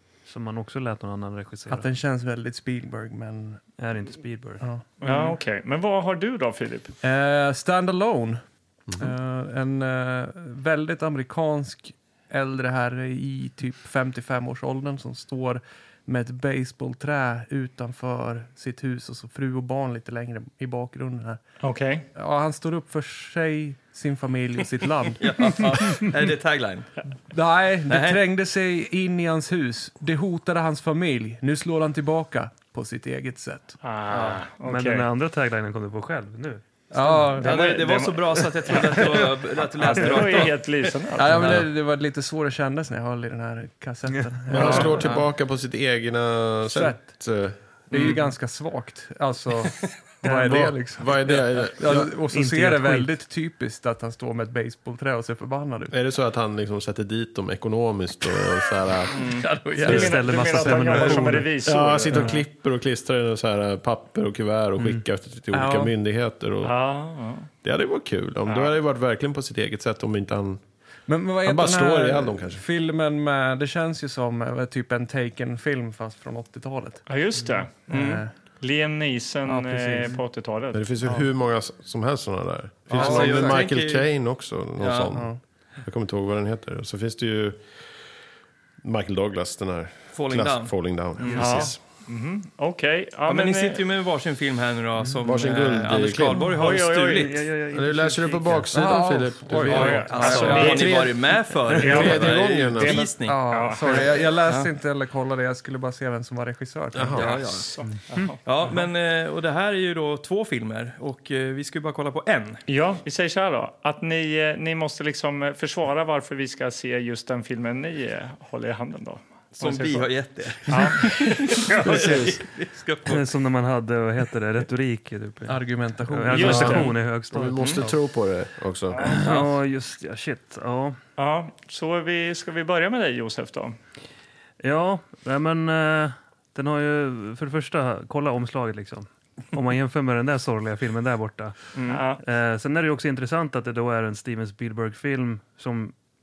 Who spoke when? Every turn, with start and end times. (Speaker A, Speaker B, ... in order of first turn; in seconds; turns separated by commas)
Speaker A: 0.3-1.9, Speaker B: 1.7-3.6, Speaker A: 3.8-4.6, Speaker C: 5.0-6.9, Speaker D: 5.1-5.3, Speaker B: 7.0-8.4, Speaker B: 8.9-21.4, Speaker C: 21.6-22.1, Speaker B: 22.2-26.1, Speaker D: 25.2-26.9, Speaker B: 27.3-33.8, Speaker D: 27.9-28.2, Speaker C: 33.8-35.1, Speaker A: 34.1-36.6, Speaker B: 36.9-38.1, Speaker D: 36.9-40.9, Speaker C: 39.8-41.6, Speaker B: 41.2-45.2, Speaker E: 44.5-47.6, Speaker C: 44.6-44.9, Speaker B: 46.7-47.2, Speaker B: 47.9-51.2, Speaker D: 47.9-48.2, Speaker A: 50.2-50.6, Speaker E: 50.3-52.1, Speaker B: 51.8-55.9, Speaker A: 52.3-53.1, Speaker E: 55.9-59.3, Speaker D: 59.1-60.1, Speaker C: 59.2-62.3, Speaker A: 59.8-61.5, Speaker E: 60.9-66.8, Speaker B: 65.5-65.9, Speaker C: 66.6-67.5, Speaker E: 67.6-70.6, Speaker C: 68.5-68.7, Speaker B: 71.1-77.0, Speaker E: 71.4-72.6, Speaker C: 77.1-77.9, Speaker D: 77.9-78.2, Speaker B: 77.9-78.3, Speaker C: 78.6-80.8, Speaker B: 79.5-80.2, Speaker E: 80.7-85.3, Speaker D: 82.9-84.1, Speaker B: 82.9-83.7, Speaker D: 84.8-85.2, Speaker B: 85.1-85.4, Speaker E: 85.8-87.7, Speaker E: 88.8-91.7, Speaker D: 90.1-91.8, Speaker A: 91.2-91.6, Speaker C: 91.4-93.8, Speaker D: 93.3-97.4, Speaker E: 95.2-96.5, Speaker C: 96.5-97.4, Speaker A: 97.2-98.7, Speaker E: 97.7-103.1, Speaker B: 98.7-100.6, Speaker D: 99.7-104.7, Speaker C: 99.7-101.2, Speaker A: 100.4-100.7, Speaker C: 101.8-104.2, Speaker B: 103.2-107.2, Speaker E: 106.9-107.7, Speaker D: 107.1-107.8, Speaker C: 107.2-108.4, Speaker D: 108.4-112.6, Speaker C: 112.7-120.1, Speaker D: 119.6-123.3, Speaker C: 120.7-121.7, Speaker E: 121.8-122.4, Speaker A: 123.0-125.6, Speaker B: 125.5-126.7, Speaker A: 126.1-127.9, Speaker C: 126.3-126.9, Speaker E: 126.3-129.2, Speaker D: 127.5-127.8, Speaker C: 128.9-129.4, Speaker A: 129.0-131.0, Speaker D: 129.1-129.5, Speaker C: 131.2-133.8, Speaker A: 134.6-145.9, Speaker D: 141.8-142.0, Speaker C: 141.9-142.2